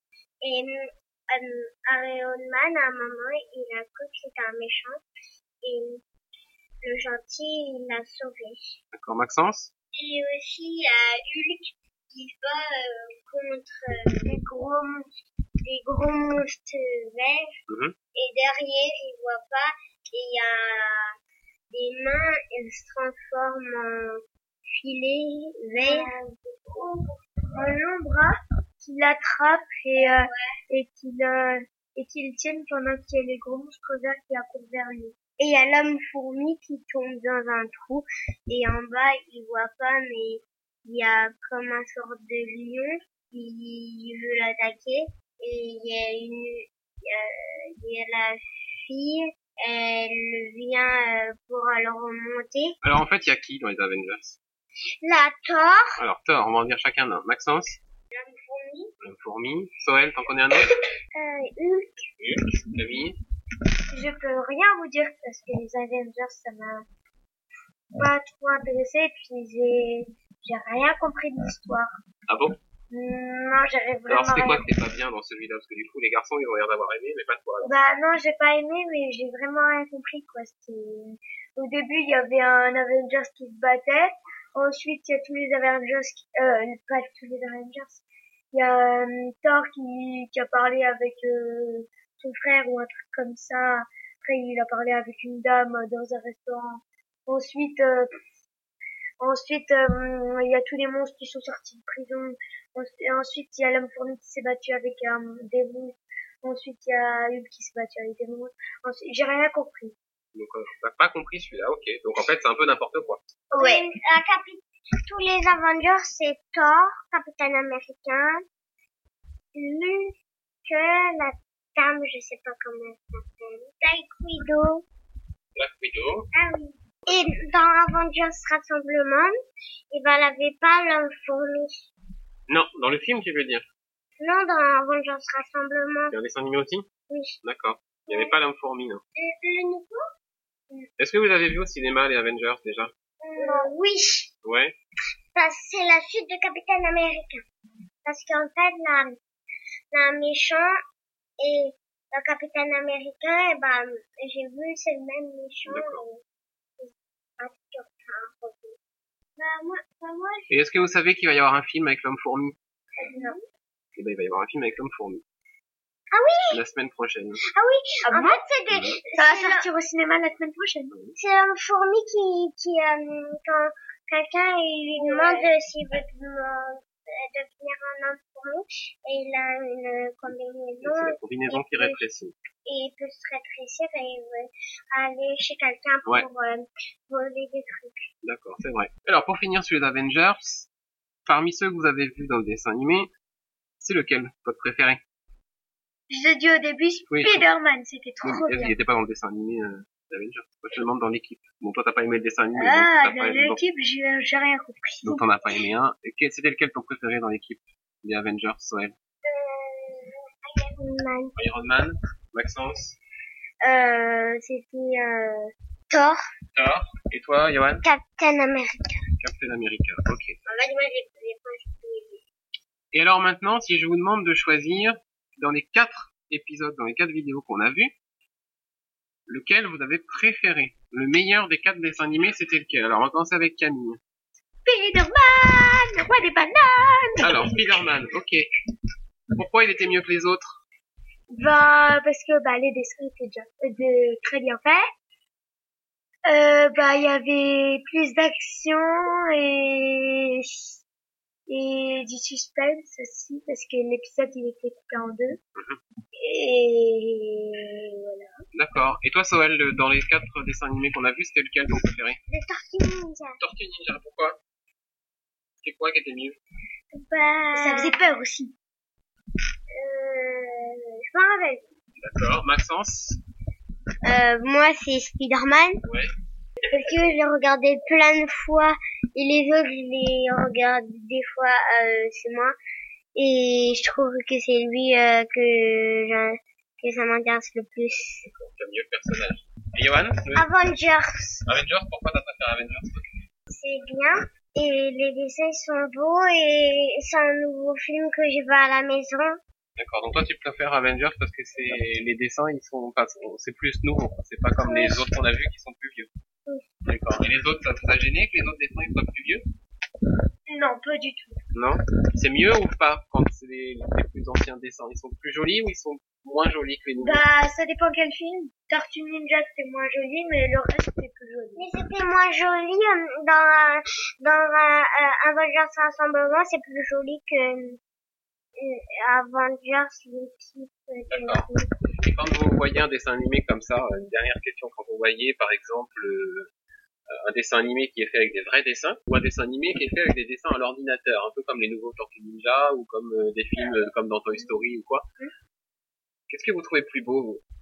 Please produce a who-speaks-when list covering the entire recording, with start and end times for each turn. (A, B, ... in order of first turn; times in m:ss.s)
0:00.4-0:05.0 A
0:05.6-0:06.0 A
0:06.8-0:08.7 A
0:08.9-0:09.7 B
0:10.0-0:14.4 A
0:14.2-0:15.1 C
0:15.6-0:17.5 A
0:17.7-0:17.9 B
0:18.1-0:21.1 A
0:21.7-0:26.1 A
0:25.8-0:35.2 C
0:30.0-0:30.5 A
0:35.4-0:52.7 A
0:52.8-0:54.4 B
0:55.0-0:56.0 A
0:56.0-0:57.8 B
0:58.1-0:58.9 A
0:59.0-1:00.7 B
1:01.1-1:02.1 A
1:02.2-1:03.2 B
1:03.9-1:06.8 C
1:07.9-1:11.9 C
1:12.3-1:12.6 B
1:12.9-1:14.6 C
1:14.1-1:17.8 B
1:17.6-1:38.2 C
1:39.2-1:49.9 C
1:50.3-1:53.2 B
1:53.5-1:53.8 C
1:53.6-1:58.4 A
1:59.5-2:00.1 A
2:00.6-2:04.8 A
2:05.6-2:06.3 B
2:06.3-2:09.3 A
2:09.9-2:11.8 A
2:12.5-2:13.6 B
2:14.2-2:16.1 A
2:16.1-2:16.9 B
2:17.1-2:17.4 A
2:17.4-2:19.0 B
2:18.1-2:18.3 A
2:19.2-2:20.0 A
2:21.0-2:22.9 B
2:23.2-2:24.3 A
2:23.4-2:23.7 C
2:24.4-2:24.7 B
2:25.3-2:27.4 A
2:28.0-2:29.2 A
2:29.9-2:30.7 A
2:31.4-2:36.2 A
2:35.7-2:36.0 B
2:36.8-2:38.8 A
2:39.4-2:40.9 A
2:40.5-2:42.6 B
2:43.0-2:43.4 A
2:43.0-2:43.4 C
2:44.0-2:45.2 B
2:46.1-2:46.6 A
2:46.5-2:47.4 B
2:47.5-2:49.7 A
2:48.1-2:48.4 C
2:48.7-2:49.0 B
2:49.2-2:50.9 C
2:50.9-2:51.2 B
2:51.2-3:02.0 A
2:55.0-2:55.5 C
3:00.8-3:02.3 B
3:02.6-3:08.0 A
3:08.2-3:10.7 B
3:11.2-3:13.1 B
3:13.8-3:15.0 B
3:16.1-3:18.7 C
3:17.1-3:17.5 B
3:18.2-3:23.6 B
3:22.6-3:25.2 C
3:25.0-3:28.9 B
3:29.2-3:31.3 A
3:31.4-3:33.0 B
3:33.6-3:36.2 A
3:36.5-3:37.8 B
3:37.8-3:39.0 A
3:39.2-3:40.4 B
3:40.4-3:42.2 A
3:42.9-3:47.9 B
3:49.3-3:54.0 B
3:54.6-3:57.8 C
3:57.2-3:58.4 B
3:59.4-4:00.6 B
4:01.3-4:04.9 C
4:06.3-4:10.6 C
4:11.5-4:15.4 C
4:16.2-4:18.3 C
4:18.5-4:22.2 B
4:22.3-4:23.4 A
4:23.4-4:24.4 B
4:25.6-4:26.4 B
4:26.9-4:28.1 A
4:27.5-4:28.5 C
4:29.7-4:31.7 A
4:32.0-4:33.2 B
4:34.0-4:35.8 A
4:35.8-4:36.1 B
4:36.7-4:42.5 A
4:43.2-4:48.3 A
4:48.2-4:50.5 B
4:50.3-4:51.4 A
4:51.4-4:53.1 B
4:53.5-4:59.4 A
4:59.8-5:06.1 B
5:04.6-5:05.0 A
5:06.8-5:09.4 B
5:10.5-5:11.4 C
5:11.5-5:17.2 B
5:17.0-5:21.7 C
5:21.6-5:27.8 A
5:28.6-5:31.7 A
5:31.1-5:31.4 B
5:32.0-5:36.5 B
5:37.1-5:45.0 B
5:46.3-5:47.4 B